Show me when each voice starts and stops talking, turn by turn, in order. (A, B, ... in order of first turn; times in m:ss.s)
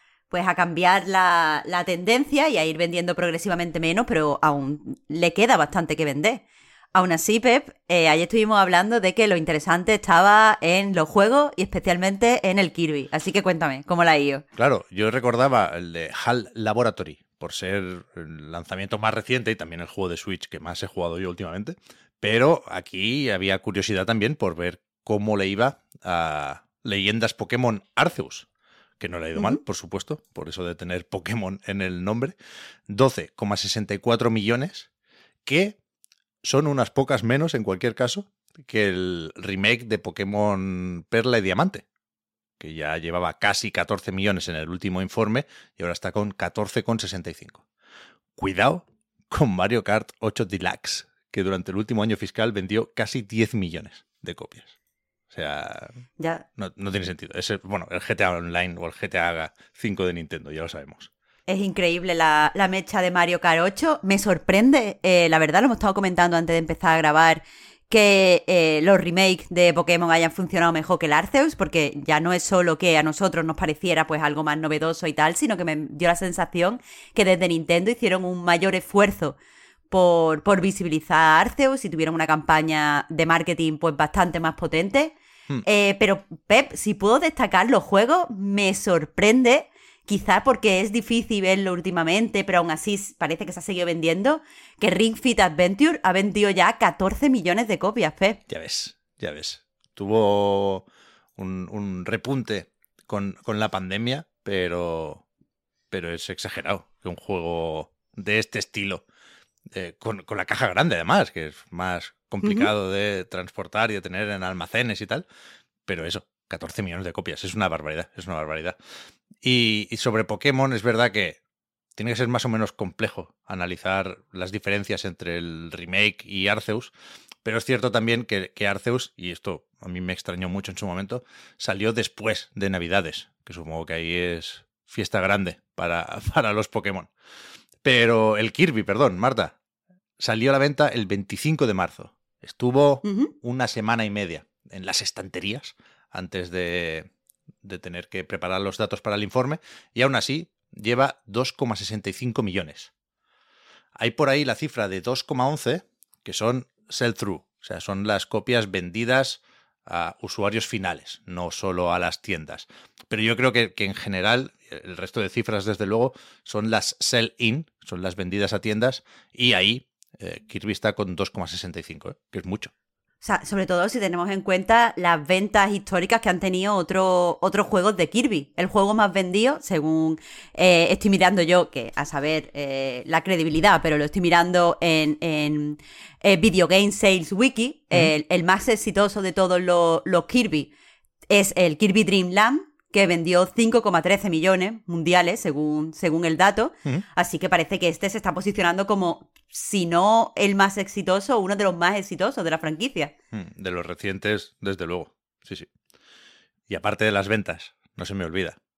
0:00.3-0:14.4 A
0:14.6-0:28.5 B
0:29.0-0:32.4 B
0:32.9-0:34.9 B
0:35.4-0:35.8 B
0:36.4-0:41.8 B
0:42.6-0:47.6 B
0:48.4-0:54.7 B
0:55.3-0:56.0 B
0:56.2-0:56.4 A
0:56.6-1:01.1 B
1:01.5-1:19.4 A
1:19.9-1:38.4 A
1:38.5-1:40.8 B
1:41.4-1:45.2 B
1:45.9-1:49.0 B
1:49.7-1:55.2 B
1:52.4-1:52.7 A
1:55.9-1:58.8 B
1:59.4-2:01.4 B
2:02.0-2:06.9 B
2:07.4-2:17.1 B
2:17.8-2:19.5 B
2:20.2-2:27.1 B
2:23.0-2:23.3 A
2:27.6-2:32.9 B
2:34.0-2:52.7 B
2:53.2-3:10.7 A
3:11.3-3:23.1 A
3:23.3-3:25.7 B
3:26.7-3:28.6 B